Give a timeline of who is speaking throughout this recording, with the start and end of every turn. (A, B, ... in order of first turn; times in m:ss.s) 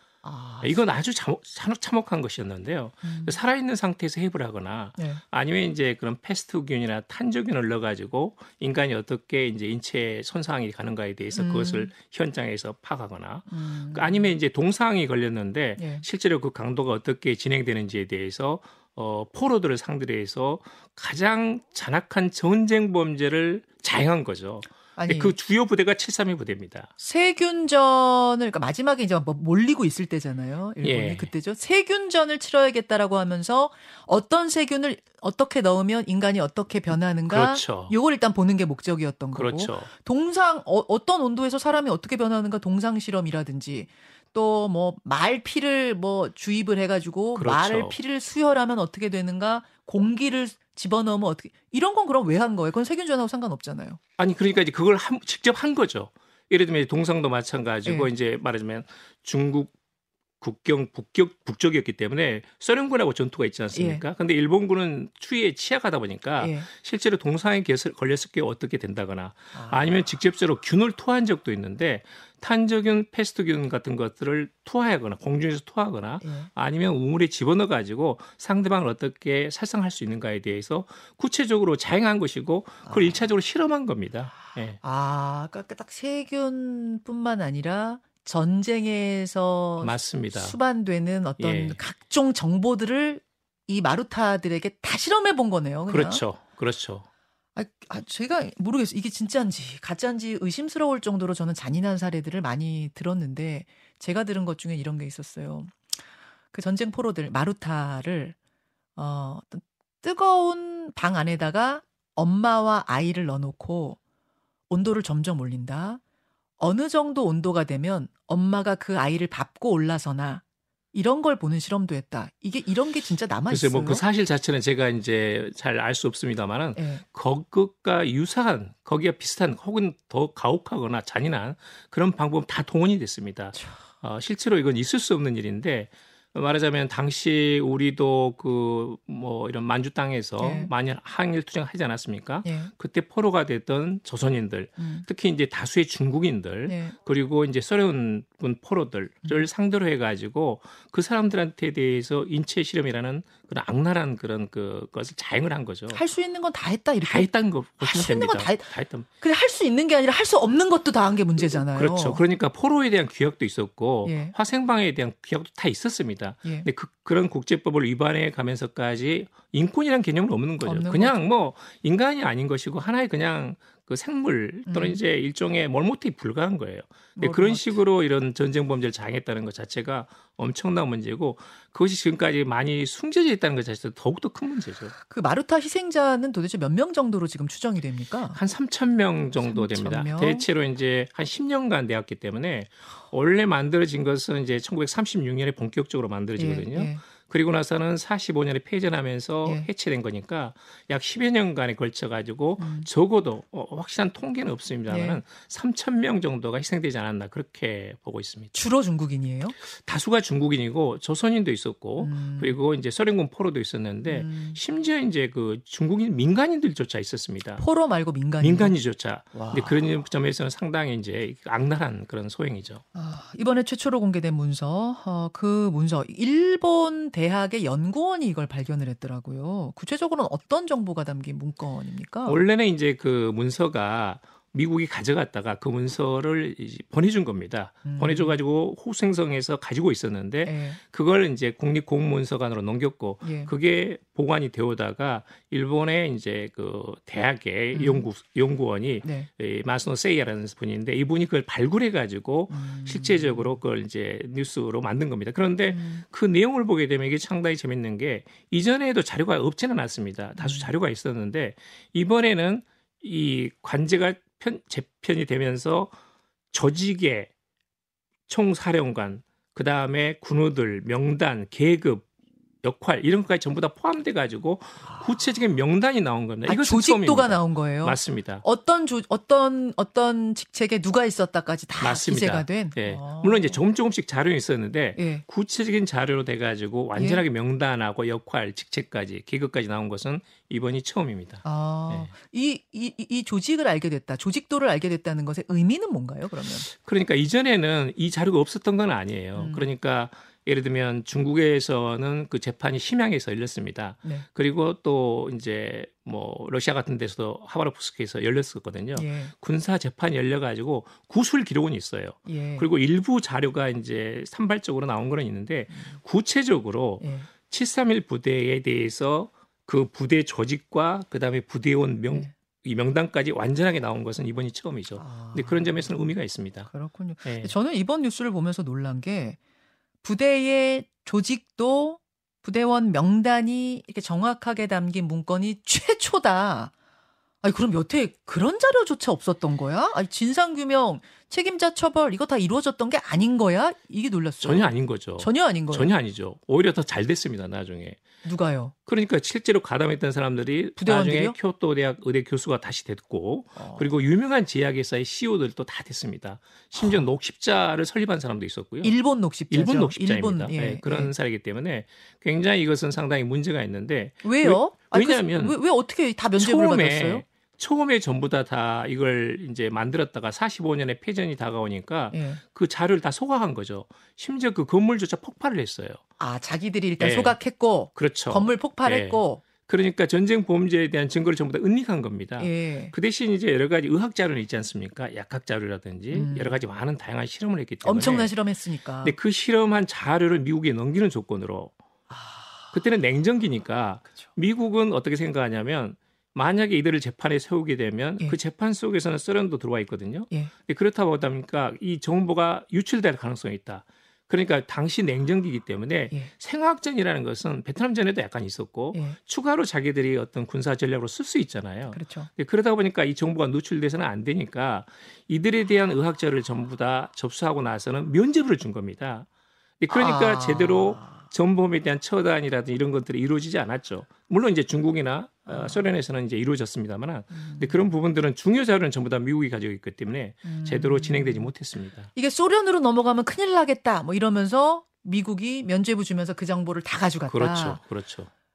0:00.2-0:00.8 A
0:00.6-0:26.9 B
0:03.0-0:03.4 A
0:05.0-0:05.2 A
0:11.4-0:11.9 A
0:13.5-0:14.3 A
0:15.8-0:16.0 A
0:25.0-0:25.4 A
0:27.0-0:54.0 A
0:30.8-0:31.3 B
0:37.3-0:37.9 B
0:39.3-0:39.9 B
0:47.3-0:48.0 B
0:54.2-0:59.7 B
0:57.8-0:58.1 A
1:00.4-1:24.8 B
1:03.7-1:04.0 A
1:06.4-1:06.7 A
1:09.5-1:09.8 A
1:16.2-1:16.5 A
1:22.8-1:23.2 A
1:24.8-1:36.2 A
1:29.8-1:30.6 B
1:31.4-1:31.8 B
1:35.9-1:37.0 B
1:37.5-1:46.0 A
1:46.5-1:48.4 A
1:49.0-1:54.0 A
1:54.7-1:56.0 A
1:56.6-2:00.4 A
2:00.9-2:04.0 A
2:03.5-2:36.0 B
2:06.8-2:07.0 A
2:13.5-2:13.8 A
2:20.4-2:20.7 A
2:22.4-2:22.7 A
2:24.8-2:25.0 A
2:26.6-2:27.0 A
2:35.9-2:42.2 A
2:37.0-2:39.1 B
2:41.4-3:04.9 B
2:44.0-2:44.3 A
2:50.6-2:51.2 A
2:54.7-2:55.0 A
2:57.2-2:57.8 A
3:05.1-3:08.4 A
3:08.3-3:28.6 B
3:09.4-3:10.4 A
3:16.4-3:17.0 A
3:22.6-3:22.9 A
3:24.9-3:25.2 A
3:28.5-3:29.6 A
3:29.7-3:37.6 B
3:32.0-3:32.6 A
3:34.0-3:34.6 A
3:37.6-3:38.8 A
3:38.4-3:42.8 B
3:39.3-3:39.8 A
3:42.9-3:52.4 A
3:52.2-4:25.9 B
3:57.8-3:58.4 A
4:00.4-4:00.8 A
4:03.2-4:03.5 A
4:07.7-4:08.1 A
4:09.0-4:09.3 A
4:12.5-4:13.6 A
4:15.7-4:16.0 A
4:20.4-4:20.7 A
4:26.5-4:27.3 B
4:28.3-4:32.0 B
4:32.6-4:38.4 B
4:36.4-4:43.6 A
4:41.8-4:52.1 B
4:44.9-4:45.2 A
4:46.9-4:47.2 A
4:51.4-4:56.7 A
4:56.6-5:26.7 B
4:59.4-4:59.7 A
5:08.9-5:09.3 A
5:12.3-5:12.7 A
5:15.7-5:16.0 A
5:17.0-5:17.3 A
5:25.0-5:25.8 A
5:26.7-5:29.4 A
5:27.2-5:27.5 B
5:30.0-5:36.7 A
5:37.4-5:45.9 A
5:44.4-5:48.0 B
5:48.2-5:48.7 A
5:48.9-5:59.0 B
5:50.8-5:51.4 A
5:53.6-5:53.9 A
5:56.8-5:57.1 A
5:58.8-6:01.1 A
5:59.5-6:05.6 B
6:04.2-6:07.2 A
6:06.4-6:16.0 B
6:12.1-6:12.4 A
6:16.2-6:19.4 A
6:17.0-6:17.4 B
6:18.0-6:28.3 B
6:22.4-6:22.9 A
6:26.1-6:26.6 A
6:27.8-6:29.2 A
6:29.0-6:31.7 B
6:32.1-6:32.7 A
6:32.7-6:59.3 B
6:51.9-6:52.3 A
6:59.8-7:12.1 B
6:59.9-7:01.2 A
7:05.5-7:05.8 A
7:07.3-7:07.8 A
7:10.4-7:11.5 A
7:12.1-7:17.8 A
7:17.3-7:18.3 B